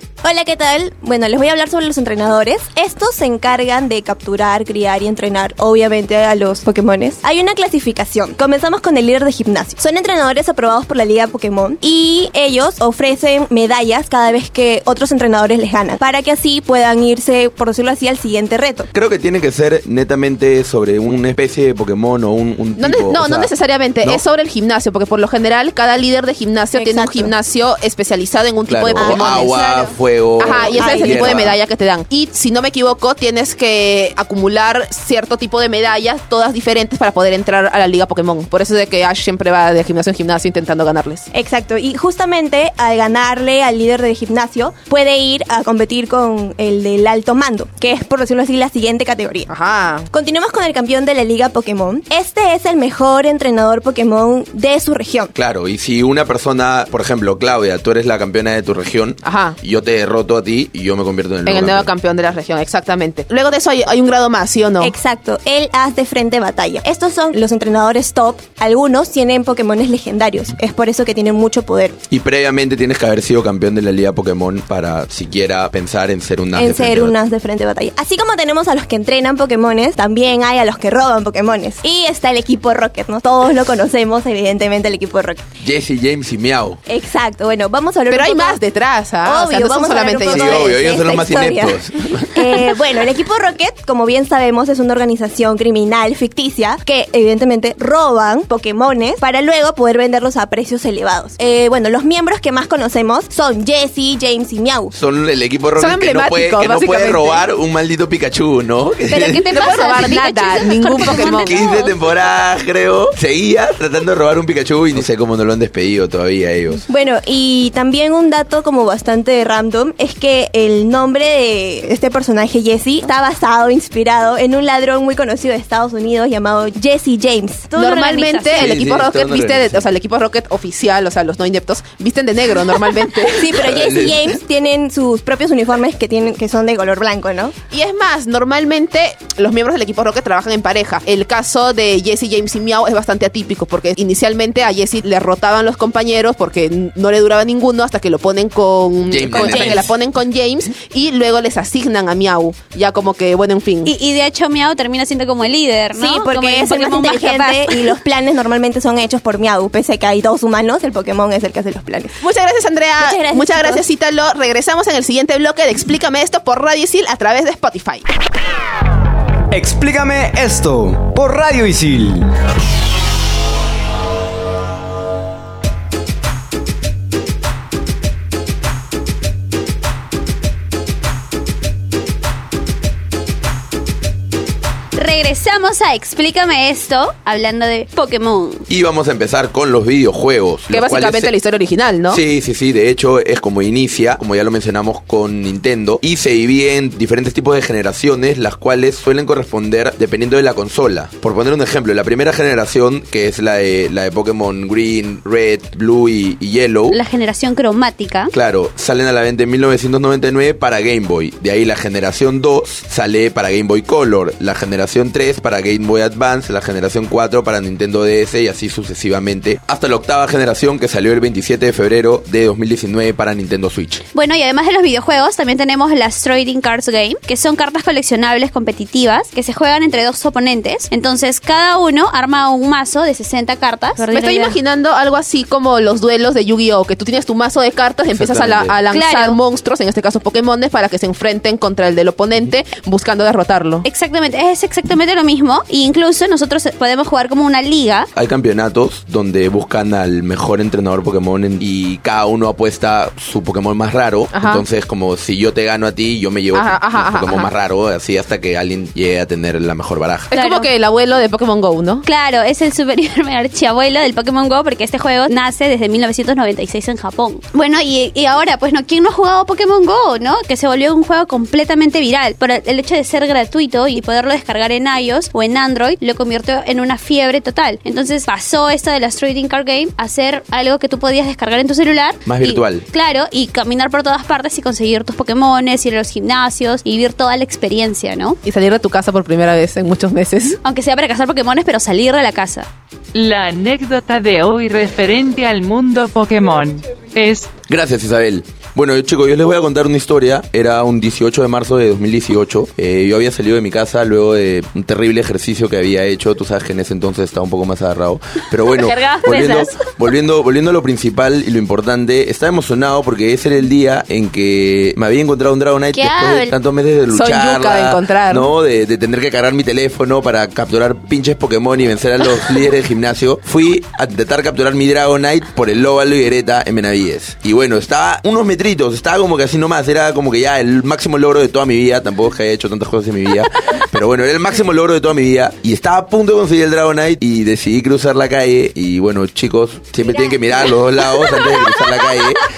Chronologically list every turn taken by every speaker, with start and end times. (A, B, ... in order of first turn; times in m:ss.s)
0:00.2-0:18.9 A
0:18.9-0:23.5 B
0:22.8-0:41.3 C
0:26.7-0:27.3 A
0:28.7-0:31.6 B
0:29.0-0:29.6 A
0:30.4-0:31.4 A
0:41.3-0:49.5 A
0:49.5-0:50.1 C
0:50.1-0:55.3 A
0:55.4-1:01.9 B
0:59.2-0:59.6 C
1:01.5-1:04.9 C
1:04.8-1:12.0 A
1:12.1-1:17.1 B
1:16.5-1:25.4 A
1:25.6-1:26.8 B
1:26.9-1:28.6 A
1:28.1-1:30.8 C
1:29.2-1:31.8 A
1:30.3-1:32.3 B
1:32.3-1:44.9 A
1:44.9-1:49.5 B
1:45.8-1:47.4 C
1:49.1-1:52.0 D
1:49.5-1:51.6 C
1:51.1-1:56.8 B
1:56.9-2:08.0 A
2:07.8-2:08.8 D
2:07.8-2:13.6 C
2:08.5-2:09.9 B
2:13.3-2:17.6 A
2:13.6-2:14.4 B
2:17.7-2:33.9 C
2:29.1-2:29.9 B
2:33.8-2:38.0 D
2:35.9-2:42.2 A
2:42.2-2:48.0 C
2:43.0-2:43.9 A
2:49.5-2:52.3 E
3:05.0-3:08.6 D
3:08.7-3:11.3 B
3:10.7-3:12.2 C
3:12.1-3:27.0 B
3:26.9-3:28.3 D
3:28.3-3:44.0 B
3:44.2-3:54.6 D
3:54.0-4:03.8 C
3:58.1-3:58.8 B
3:58.9-3:59.4 D
4:03.8-4:08.1 D
4:08.2-4:20.3 B
4:14.3-4:14.6 C
4:16.5-4:17.5 C
4:20.3-4:20.7 D
4:20.3-4:22.0 C
4:22.0-4:48.4 D
4:42.3-4:42.8 B
4:48.4-4:50.6 C
4:50.6-4:52.7 D
4:53.1-4:57.5 F
4:57.7-5:42.4 B
5:08.7-5:09.8 D
5:15.9-5:16.5 D
5:17.1-5:18.5 C
5:40.1-5:42.2 D